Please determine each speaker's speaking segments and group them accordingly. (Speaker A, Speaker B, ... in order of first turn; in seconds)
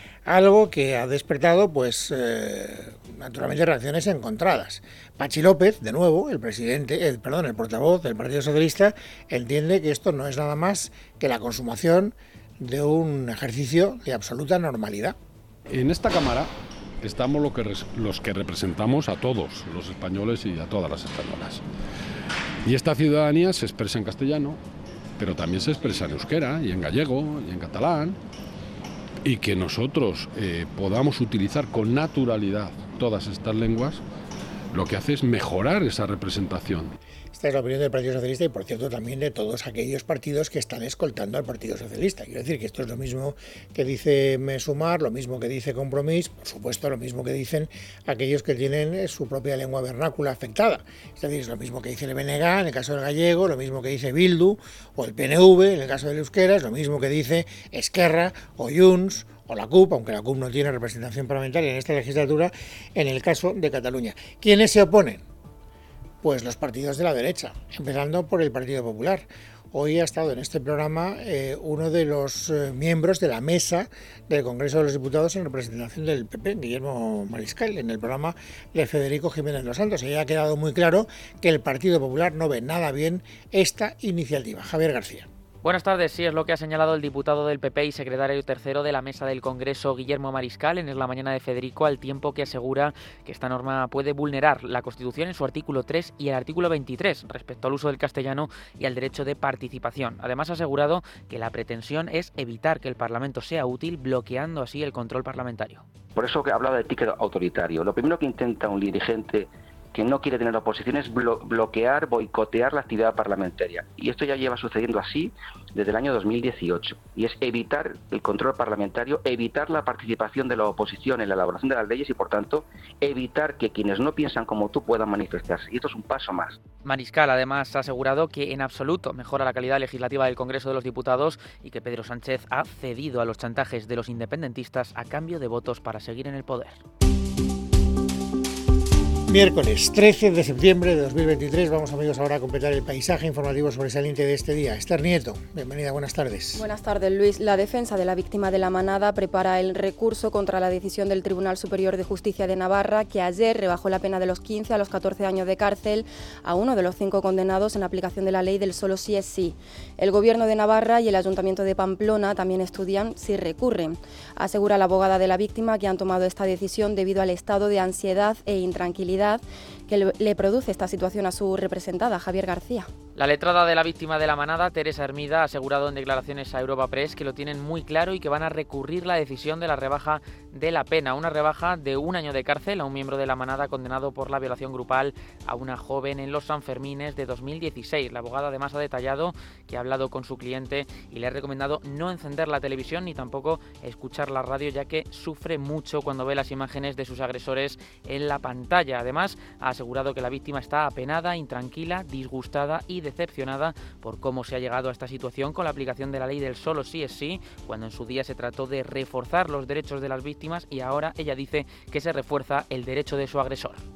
Speaker A: 0.2-15.2, 37.3-65.2, 66.2-85.3, 139.3-146.7
Speaker B: 15.7-16.5, 17.0-21.6, 22.6-24.6, 25.2-28.2, 29.2-34.0, 34.7-36.9
Speaker C: 85.6-105.8, 126.8-136.8, 173.2-213.8
Speaker D: 106.2-126.6
Speaker E: 146.6-172.9